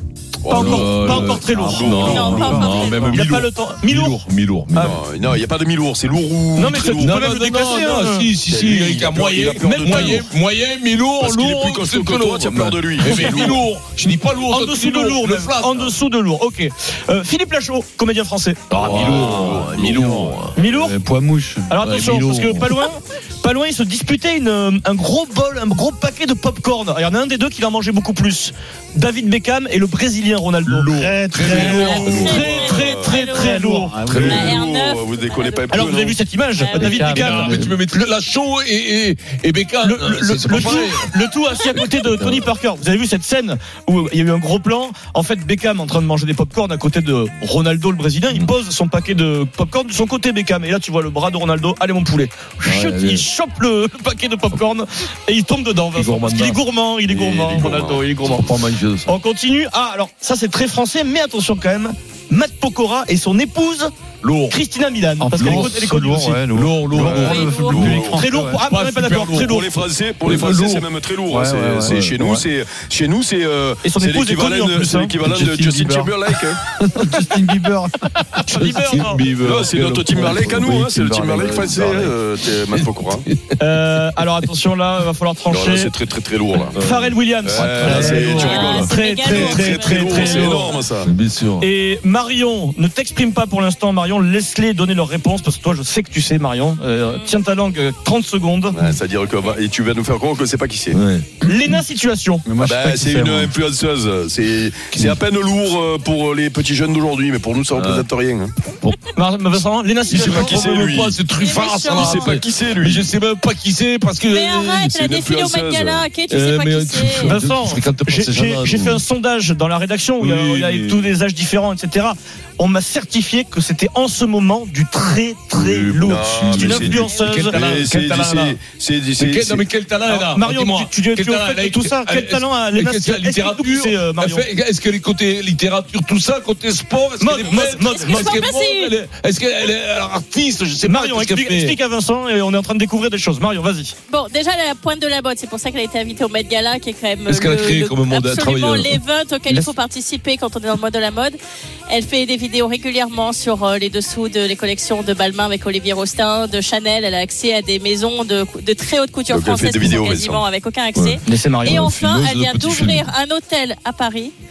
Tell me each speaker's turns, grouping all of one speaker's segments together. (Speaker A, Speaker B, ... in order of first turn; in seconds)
Speaker A: 0.4-2.1, 4.7-7.2, 8.5-10.2, 11.2-13.6, 18.8-20.4, 31.8-33.1, 34.1-36.2, 57.4-58.1, 67.0-68.2, 69.5-76.6, 79.4-83.2, 85.5-86.8, 87.4-91.1, 98.7-101.0, 102.6-108.5, 110.1-111.2, 111.9-113.1, 115.1-116.1, 126.0-129.7, 159.3-160.5
Speaker B: 0.5-2.4, 3.0-4.2, 4.7-5.0, 6.5-8.3, 9.6-10.3, 13.0-13.6, 14.5-18.8, 20.6-21.0, 21.7-30.9, 31.5-34.0, 35.7-38.0, 39.8-58.5, 59.1-63.9, 64.5-66.4, 68.0-69.8, 73.8-75.2, 78.5-79.2, 83.6-85.9, 86.8-90.7, 91.6-98.8, 101.4-102.5, 109.2-110.8, 117.2-127.6, 130.1-134.5, 137.2-138.3, 140.8-143.9, 161.3-161.9
Speaker C: 0.5-5.0, 6.9-15.9, 18.7-20.6, 21.8-22.7, 30.6-32.5, 34.1-34.4, 36.8-41.1, 41.8-42.5, 52.6-53.2, 56.0-59.1, 64.2-64.6, 65.4-65.9, 66.4-68.1, 68.7-69.6, 70.2-70.8, 71.7-72.5, 78.6-82.2, 82.7-83.6, 86.7-88.2, 91.0-91.7, 100.9-101.3, 104.9-105.2, 107.7-108.1, 110.1-115.1, 116.3-119.0, 120.2-121.1, 125.5-128.6, 129.2-141.8, 147.3-149.0, 161.0-163.1
Speaker D: 1.2-2.9, 19.2-19.5, 20.6-21.8, 30.9-32.2, 33.2-34.6, 36.8-37.8, 65.2-68.6, 71.3-72.0, 75.2-76.1, 76.8-78.4, 87.8-88.5, 102.5-103.5
Speaker E: 2.0-3.2, 31.6-35.9, 36.6-37.1, 67.0-67.9, 88.3-90.9, 97.1-97.4, 111.4-112.4, 114.3-117.4, 137.4-138.9, 144.1-151.4, 151.9-164.3